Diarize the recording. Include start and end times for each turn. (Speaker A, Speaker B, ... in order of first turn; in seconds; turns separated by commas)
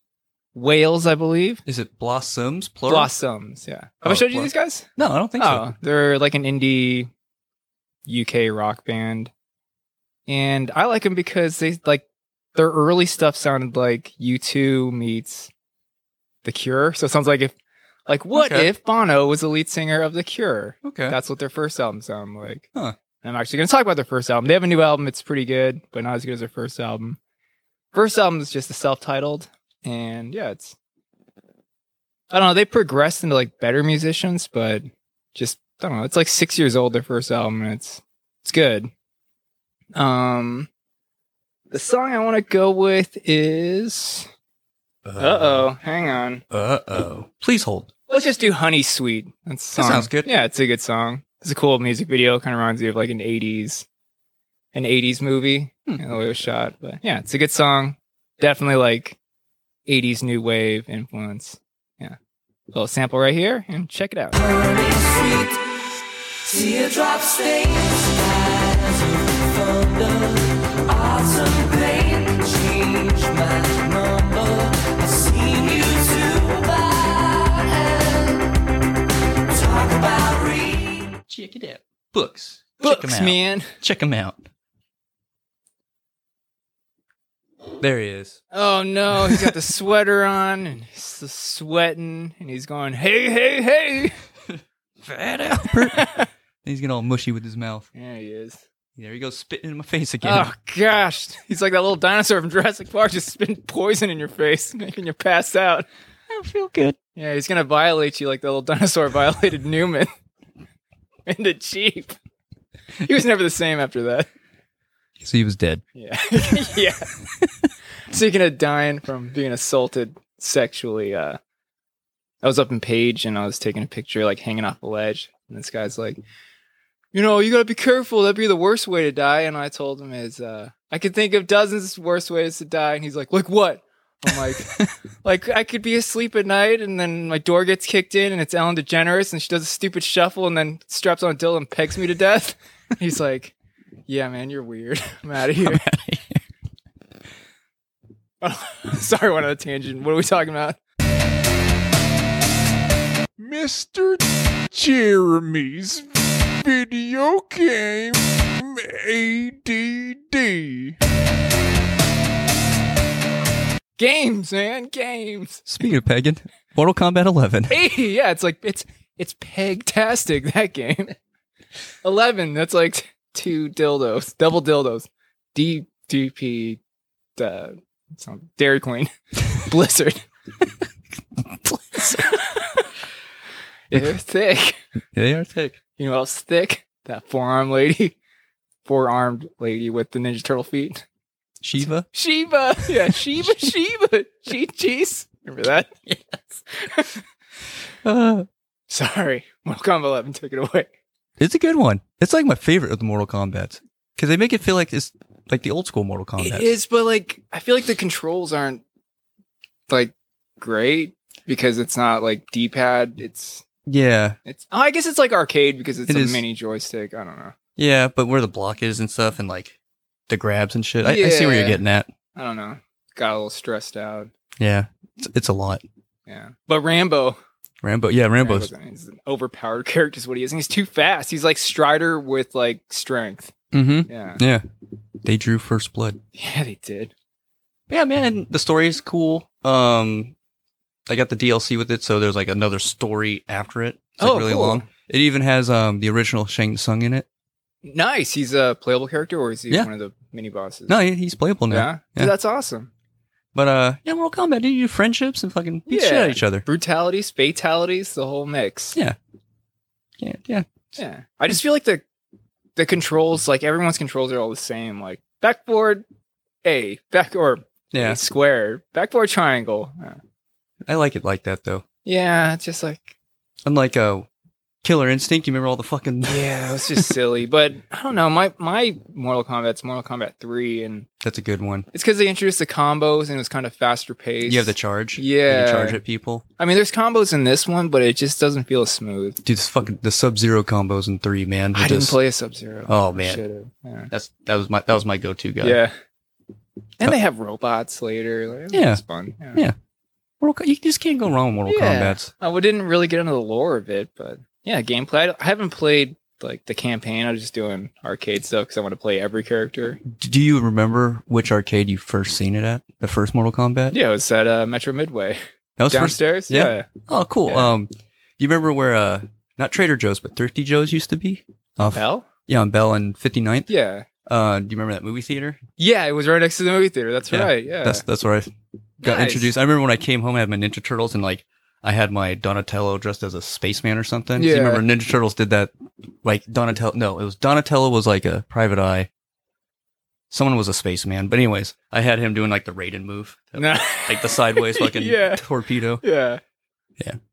Speaker A: 0.5-1.6, Speaker B: 1.6-3.1, Speaker A: 2.9-4.9, Speaker B: 4.0-5.7, Speaker A: 5.4-7.1, Speaker A: 8.1-9.3, Speaker A: 10.3-15.5, Speaker A: 16.4-17.5, Speaker A: 18.1-22.7, Speaker B: 18.3-18.7, Speaker B: 20.8-21.2, Speaker A: 23.2-27.2, Speaker A: 27.9-30.8, Speaker A: 32.3-38.9, Speaker A: 39.9-40.7, Speaker A: 41.7-44.3, Speaker B: 45.0-45.7, Speaker A: 45.2-46.4, Speaker B: 46.5-47.9, Speaker A: 48.1-53.9, Speaker B: 49.7-50.3, Speaker A: 54.7-59.2, Speaker A: 59.9-62.2, Speaker A: 62.7-64.3, Speaker C: 64.3-65.6, Speaker C: 66.4-78.5, Speaker C: 79.5-81.2, Speaker B: 81.2-84.5, Speaker A: 82.8-83.7, Speaker B: 87.8-88.4, Speaker A: 88.5-94.2, Speaker B: 89.2-89.5, Speaker B: 95.0-97.9, Speaker A: 95.8-96.3, Speaker A: 97.9-98.6, Speaker B: 99.0-100.5, Speaker A: 100.2-105.9, Speaker B: 106.3-107.0, Speaker A: 107.2-110.1, Speaker A: 111.2-112.1, Speaker A: 113.0-114.3, Speaker B: 115.2-115.8, Speaker A: 115.9-117.1, Speaker A: 118.1-121.4, Speaker A: 122.4-126.2, Speaker A: 127.1-143.5, Speaker A: 144.1-145.8, Speaker B: 145.6-146.4, Speaker A: 148.4-150.8, Speaker D: 153.4-160.9, Speaker A: 164.0-165.7, Speaker B: 165.7-167.8, Speaker A: 167.7-171.2, Speaker A: 172.0-176.8, Speaker A: 177.4-180.2, Speaker B: 181.4-182.3, Speaker A: 182.0-182.8, Speaker A: 183.9-184.8, Speaker B: 185.1-185.8, Speaker A: 186.0-188.2, Speaker A: 188.8-191.0, Speaker B: 191.6-192.1, Speaker A: 191.8-196.0, Speaker B: 192.9-193.6, Speaker A: 196.7-197.2, Speaker B: 198.0-198.5, Speaker A: 198.9-200.9, Speaker B: 201.4-206.7, Speaker A: 206.4-208.8, Speaker A: 209.9-213.6, Speaker B: 213.9-214.4, Speaker A: 214.4-217.5, Speaker B: 216.1-216.4, Speaker B: 217.8-219.8, Speaker B: 220.3-222.1, Speaker A: 221.0-221.8, Speaker A: 222.3-224.3, Speaker B: 224.6-225.8, Speaker A: 226.3-227.4, Speaker B: 227.8-228.7, Speaker A: 228.4-233.5, Speaker B: 233.7-234.6, Speaker A: 234.1-234.4, Speaker B: 235.2-236.2, Speaker A: 236.3-237.1, Speaker B: 237.9-240.3, Speaker B: 241.1-247.2, Speaker A: 244.2-244.9, Speaker A: 247.8-251.0, Speaker B: 250.9-252.3, Speaker A: 251.7-252.9, Speaker B: 253.5-256.6, Speaker A: 255.9-259.0, Speaker B: 260.2-260.7, Speaker A: 261.0-262.0, Speaker A: 262.8-266.0, Speaker A: 266.6-270.2, Speaker B: 267.9-268.2, Speaker B: 270.8-271.8, Speaker A: 272.0-273.1, Speaker B: 273.6-274.3, Speaker B: 274.8-277.1, Speaker A: 276.3-281.1, Speaker B: 281.2-281.9, Speaker A: 281.9-286.0, Speaker B: 284.4-286.4, Speaker A: 286.6-289.4, Speaker B: 289.4-292.2, Speaker A: 291.7-294.1, Speaker B: 292.9-293.4, Speaker B: 294.1-295.8, Speaker A: 295.6-295.9, Speaker A: 297.0-299.6, Speaker B: 298.7-299.0, Speaker B: 300.4-302.3, Speaker A: 301.6-310.0, Speaker B: 310.0-313.9, Speaker A: 313.9-315.4, Speaker B: 315.8-323.7, Speaker A: 315.9-316.9, Speaker A: 317.5-317.7, Speaker A: 321.9-322.2, Speaker A: 323.7-324.1, Speaker B: 324.2-325.6, Speaker A: 325.8-328.0, Speaker B: 327.3-335.7, Speaker A: 329.0-329.5, Speaker A: 334.4-334.8, Speaker B: 336.2-339.1, Speaker B: 340.3-346.0, Speaker A: 343.6-345.4, Speaker A: 346.0-346.4